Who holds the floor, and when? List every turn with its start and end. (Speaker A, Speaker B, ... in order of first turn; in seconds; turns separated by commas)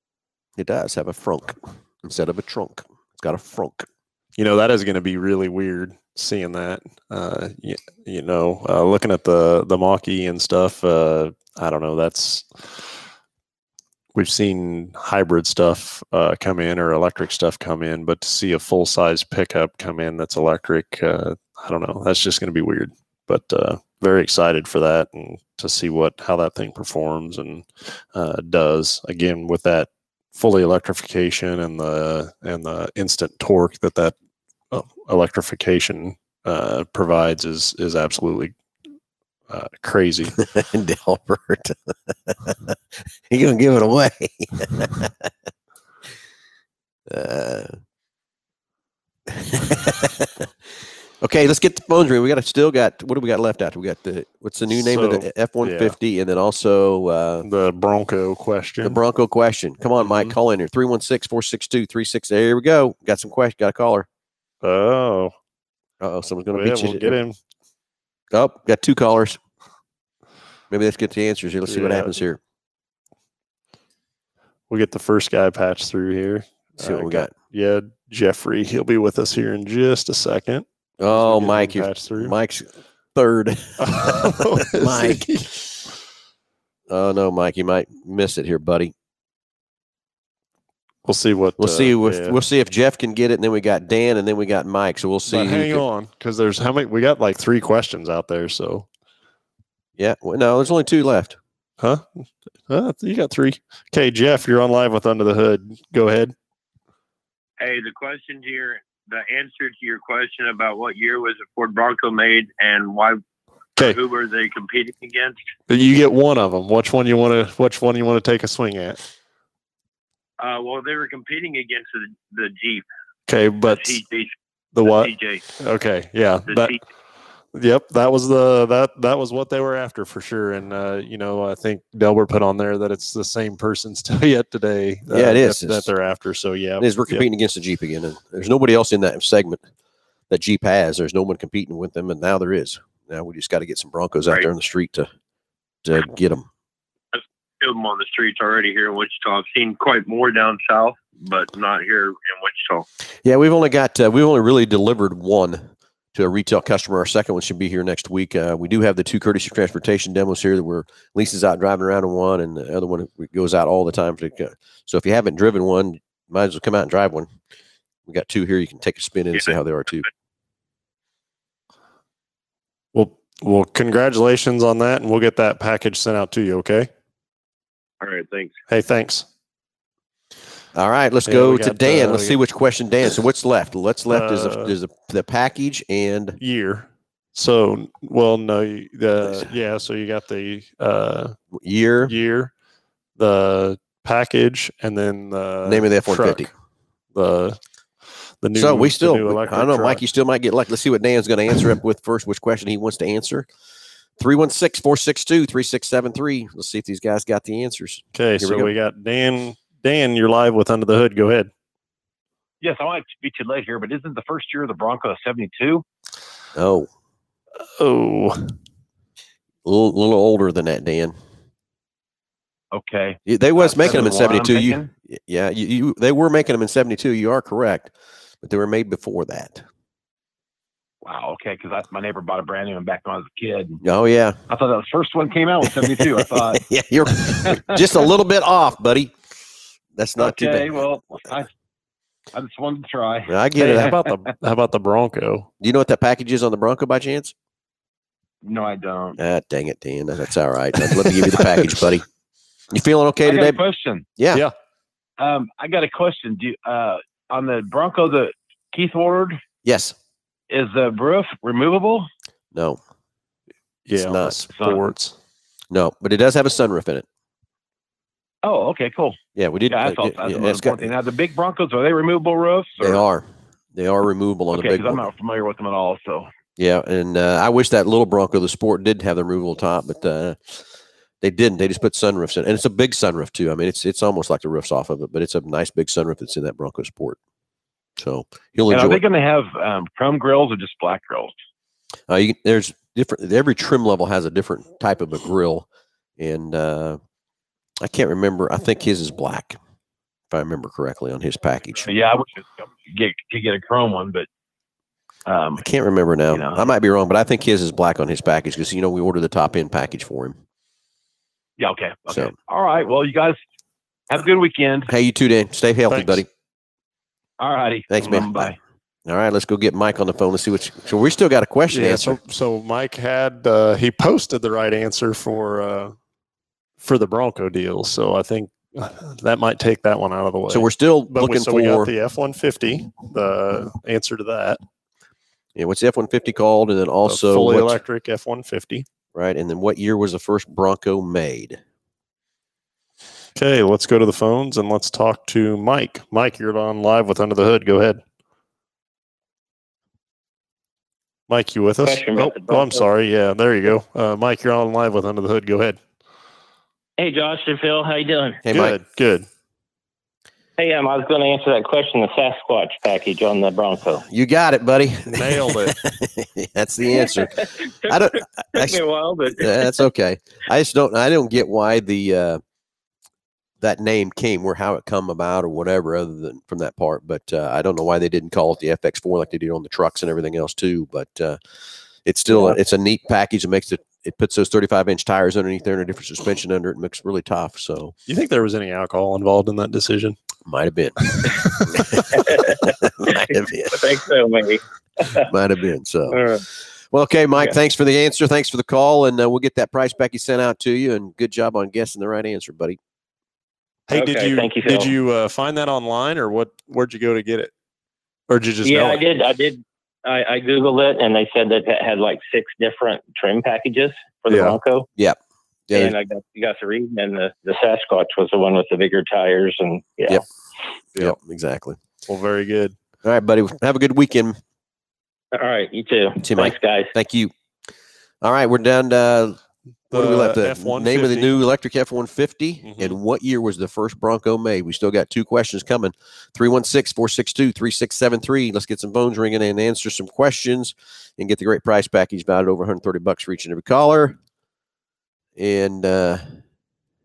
Speaker A: 0.6-3.9, Speaker B: 4.4-12.9, Speaker B: 14.1-34.1, Speaker B: 34.7-38.5, Speaker B: 39.5-40.3, Speaker A: 40.4-42.7, Speaker A: 43.3-45.3, Speaker A: 47.1-47.8, Speaker A: 49.3-50.5, Speaker A: 51.2-57.5, Speaker B: 54.7-55.9, Speaker B: 57.4-59.0, Speaker A: 58.8-64.1, Speaker B: 60.0-60.3, Speaker B: 64.6-65.3, Speaker A: 66.0-67.2, Speaker B: 66.5-67.3, Speaker A: 68.3-69.4, Speaker A: 70.7-72.4, Speaker B: 71.7-72.1, Speaker B: 74.7-82.3, Speaker A: 76.8-77.3, Speaker A: 81.0-85.3, Speaker B: 83.8-85.6, Speaker A: 86.9-88.9, Speaker B: 91.0-92.4, Speaker A: 91.6-95.8, Speaker B: 95.3-98.8, Speaker A: 100.0-101.4, Speaker B: 101.8-106.3, Speaker C: 107.6-113.2, Speaker C: 113.8-115.3, Speaker B: 115.7-119.0, Speaker C: 120.4-122.8, Speaker B: 123.3-124.0, Speaker C: 123.7-125.4, Speaker B: 124.7-126.8, Speaker C: 126.5-126.8, Speaker B: 127.5-137.2, Speaker A: 135.1-135.9, Speaker A: 136.8-139.6, Speaker A: 140.3-145.1, Speaker A: 145.8-146.5, Speaker C: 147.1-152.9, Speaker A: 153.2-167.3, Speaker A: 168.1-170.1, Speaker B: 172.9-176.9, Speaker C: 178.0-178.6, Speaker B: 178.7-179.2, Speaker A: 180.7-186.4, Speaker B: 181.3-182.4, Speaker B: 184.1-184.7, Speaker B: 186.4-191.3, Speaker A: 189.2-189.5, Speaker A: 191.5-192.1, Speaker B: 192.1-192.5, Speaker B: 193.2-196.5, Speaker A: 195.6-196.5, Speaker B: 197.1-197.6, Speaker B: 198.4-200.0, Speaker A: 198.5-203.5, Speaker A: 204.2-208.7, Speaker B: 208.1-211.5, Speaker D: 212.6-215.8, Speaker A: 216.5-216.9, Speaker B: 217.8-218.6, Speaker A: 219.6-221.2, Speaker D: 222.7-224.9, Speaker A: 223.2-229.6, Speaker D: 231.0-233.8, Speaker A: 233.8-234.4, Speaker D: 234.5-236.6, Speaker A: 235.8-239.1, Speaker D: 237.2-238.1, Speaker A: 239.9-240.8, Speaker D: 240.2-241.5, Speaker D: 242.3-244.1, Speaker A: 243.3-244.0, Speaker B: 243.6-245.5, Speaker A: 245.6-247.3, Speaker D: 248.4-249.2, Speaker A: 249.2-252.0, Speaker B: 251.1-251.4, Speaker A: 252.7-253.6, Speaker D: 253.2-254.0, Speaker A: 254.2-254.4, Speaker D: 255.2-259.4, Speaker A: 259.6-259.9, Speaker D: 260.5-262.1, Speaker A: 262.5-262.8, Speaker B: 263.9-265.1, Speaker A: 264.0-264.4, Speaker D: 264.6-264.8, Speaker A: 265.7-267.1, Speaker D: 268.4-273.0, Speaker A: 269.3-270.9, Speaker A: 272.8-275.1, Speaker D: 274.5-276.3, Speaker A: 276.6-280.6, Speaker A: 281.2-287.2, Speaker A: 288.0-289.0, Speaker D: 288.7-291.3, Speaker A: 292.1-295.7, Speaker A: 296.2-297.0, Speaker A: 297.8-299.6, Speaker A: 300.3-301.9, Speaker D: 301.8-304.3, Speaker D: 305.2-305.6, Speaker A: 305.6-310.4, Speaker D: 306.3-306.7, Speaker D: 311.6-313.4, Speaker A: 312.1-312.3, Speaker D: 314.1-314.9, Speaker A: 314.9-316.2, Speaker B: 315.9-316.2, Speaker D: 317.4-318.6, Speaker A: 317.9-318.6, Speaker A: 319.1-322.2, Speaker B: 321.7-325.9, Speaker B: 326.8-334.6, Speaker A: 330.5-331.9, Speaker A: 335.6-337.8, Speaker B: 337.1-338.9, Speaker A: 339.1-341.6, Speaker B: 343.3-348.0, Speaker B: 351.3-355.8, Speaker E: 351.8-352.8, Speaker E: 357.0-358.4, Speaker A: 358.4-358.8, Speaker B: 358.5-359.3, Speaker E: 360.6-364.0, Speaker A: 364.1-372.4, Speaker B: 365.1-365.8, Speaker E: 366.9-369.9, Speaker A: 373.6-381.4, Speaker A: 382.0-387.9, Speaker B: 388.1-390.1, Speaker A: 390.4-393.8, Speaker B: 391.2-392.0, Speaker E: 392.1-395.3, Speaker A: 395.2-402.8, Speaker E: 396.1-396.4, Speaker B: 403.9-407.5, Speaker E: 403.9-404.9, Speaker B: 408.3-409.0, Speaker E: 408.6-414.9, Speaker B: 414.3-414.6, Speaker A: 415.7-415.9, Speaker E: 415.7-420.2, Speaker A: 421.0-421.8, Speaker B: 422.1-422.7, Speaker A: 423.0-424.4, Speaker E: 425.3-426.9, Speaker A: 426.2-427.3, Speaker A: 428.2-429.4, Speaker A: 429.9-444.2, Speaker B: 429.9-431.3, Speaker B: 432.6-433.0, Speaker A: 445.4-446.4